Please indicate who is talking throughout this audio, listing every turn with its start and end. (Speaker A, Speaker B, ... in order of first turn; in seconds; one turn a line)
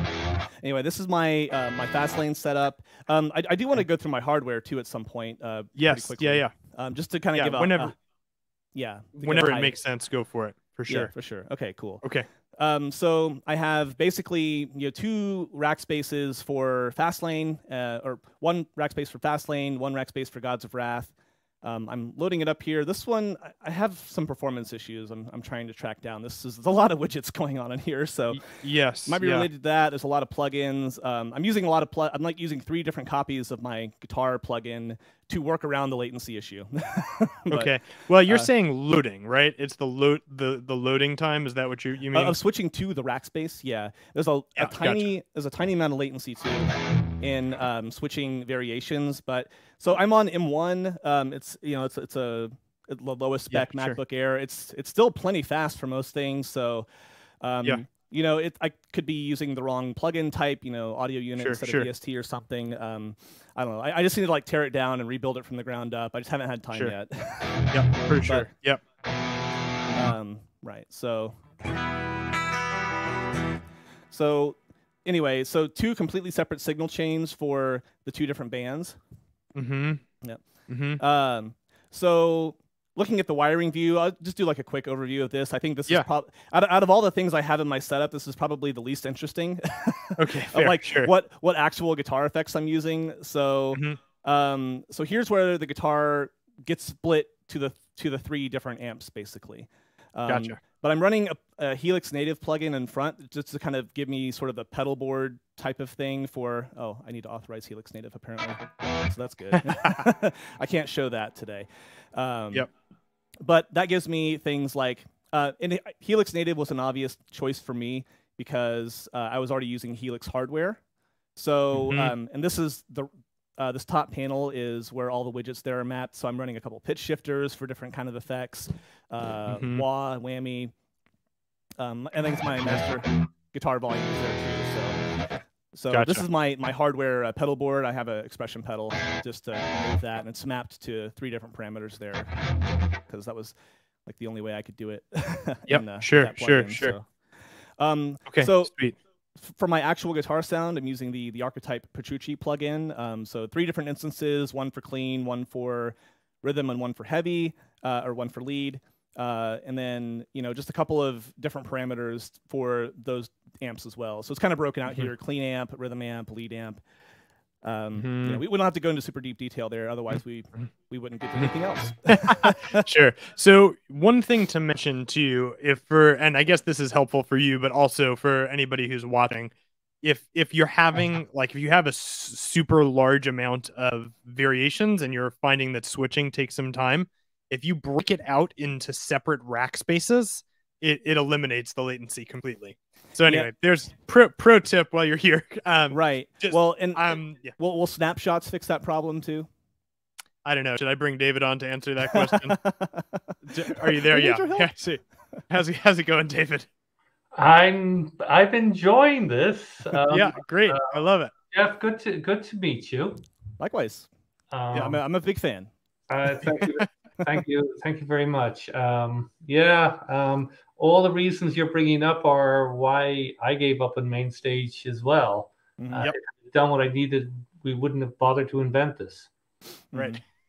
Speaker A: 0.6-7.9
Speaker B: 5.8-6.5
Speaker B: 7.3-7.9
Speaker A: 8.7-9.7
Speaker B: 9.2-11.1
Speaker A: 10.9-12.0
Speaker B: 12.0-12.3
Speaker A: 12.5-28.4
Speaker B: 28.3-29.5
Speaker A: 29.0-37.7
Speaker B: 37.5-42.4
Speaker A: 42.1-56.9
Speaker B: 44.6-45.0
Speaker B: 53.5-54.0
Speaker A: 57.4-68.5
Speaker B: 61.4-61.9
Speaker B: 67.7-68.8
Speaker A: 69.9-71.4
Speaker A: 74.1-79.0
Speaker B: 79.5-80.0
Speaker B: 80.7-81.0
Speaker A: 81.0-112.7
Speaker B: 90.2-91.1
Speaker B: 93.7-94.0
Speaker B: 100.3-100.6
Speaker B: 109.5-110.0
Speaker A: 113.4-120.8
Speaker A: 121.4-130.7
Speaker B: 121.7-122.1
Speaker B: 129.5-129.8
Speaker A: 131.8-135.1
Speaker A: 135.7-142.4
Speaker B: 135.9-136.2
Speaker A: 143.1-143.6
Speaker A: 144.1-147.1
Speaker B: 145.7-146.9
Speaker A: 147.8-148.7
Speaker B: 148.3-148.9
Speaker A: 149.4-166.8
Speaker A: 167.6-172.8
Speaker B: 167.9-168.4
Speaker B: 172.1-197.6
Speaker A: 195.9-199.5
Speaker B: 200.4-202.6
Speaker A: 202.1-204.7
Speaker B: 203.5-206.7
Speaker C: 207.4-211.0
Speaker B: 210.1-211.3
Speaker C: 211.5-213.2
Speaker A: 213.6-214.1
Speaker C: 214.5-215.0
Speaker A: 214.7-215.7
Speaker C: 216.1-229.3
Speaker A: 225.8-226.1
Speaker A: 229.9-230.2
Speaker B: 229.9-230.2